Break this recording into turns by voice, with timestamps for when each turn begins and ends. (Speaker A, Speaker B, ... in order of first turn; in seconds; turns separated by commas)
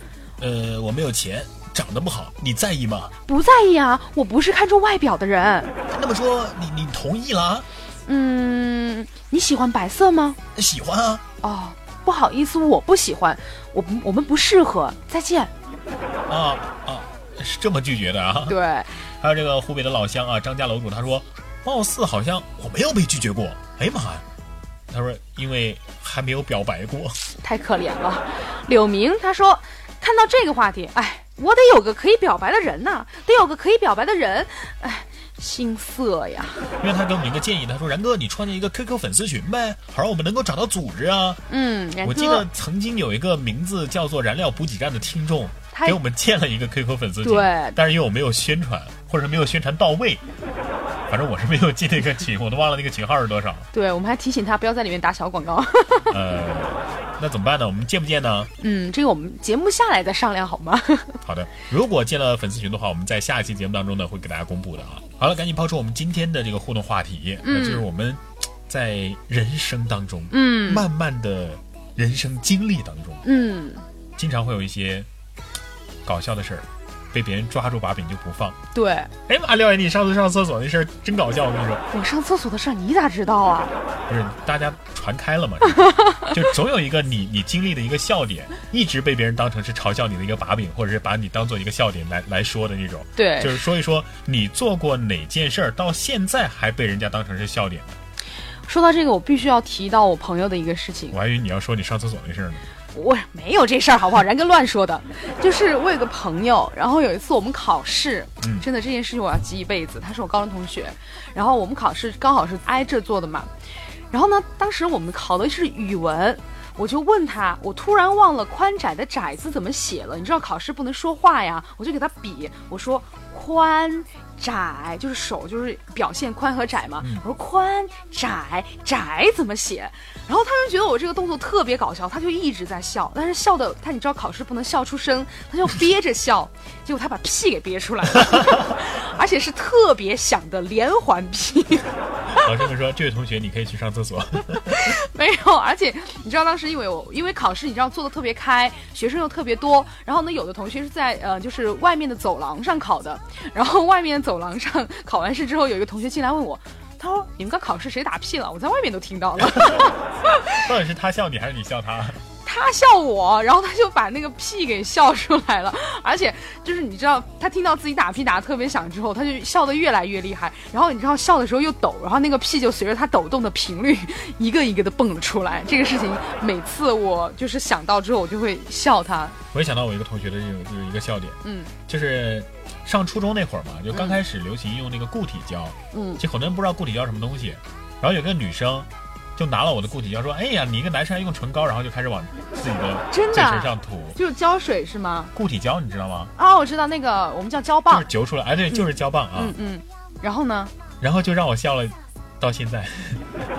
Speaker A: 0.4-3.1, Speaker B: 3.2-5.7, Speaker A: 5.9-7.7, Speaker B: 8.1-10.4, Speaker A: 10.6-11.2, Speaker B: 11.4-15.5, Speaker A: 16.3-18.6, Speaker B: 18.5-18.9, Speaker A: 19.2-24.2, Speaker A: 24.9-27.2, Speaker B: 27.4-36.7, Speaker A: 36.8-41.4, Speaker B: 41.5-42.5, Speaker A: 42.0-50.2, Speaker B: 45.7-46.0, Speaker B: 47.2-47.8, Speaker A: 51.1-53.7, Speaker B: 53.7-56.1, Speaker A: 56.1-58.5, Speaker B: 58.6-61.2, Speaker A: 61.2-73.2, Speaker B: 67.4-67.9, Speaker B: 70.3-70.8, Speaker B: 73.2-73.8, Speaker A: 74.2-75.1, Speaker A: 76.0-78.6, Speaker B: 78.7-79.1, Speaker A: 79.3-81.8, Speaker B: 81.9-83.7, Speaker A: 84.1-98.0, Speaker B: 85.8-86.3, Speaker B: 93.2-93.7, Speaker B: 98.7-101.2, Speaker A: 101.1-102.6, Speaker B: 102.9-113.5, Speaker A: 108.4-108.7, Speaker B: 114.1-142.5, Speaker A: 142.3-145.0, Speaker B: 144.6-160.6, Speaker A: 159.4-159.9, Speaker A: 160.5-162.2, Speaker B: 162.4-179.4, Speaker A: 179.5-194.2, Speaker B: 181.4-181.7, Speaker B: 183.9-184.2, Speaker B: 185.9-186.2, Speaker B: 193.1-195.3, Speaker A: 195.3-196.3, Speaker B: 196.3-198.1, Speaker A: 197.9-199.6, Speaker B: 198.7-200.7, Speaker A: 201.0-203.3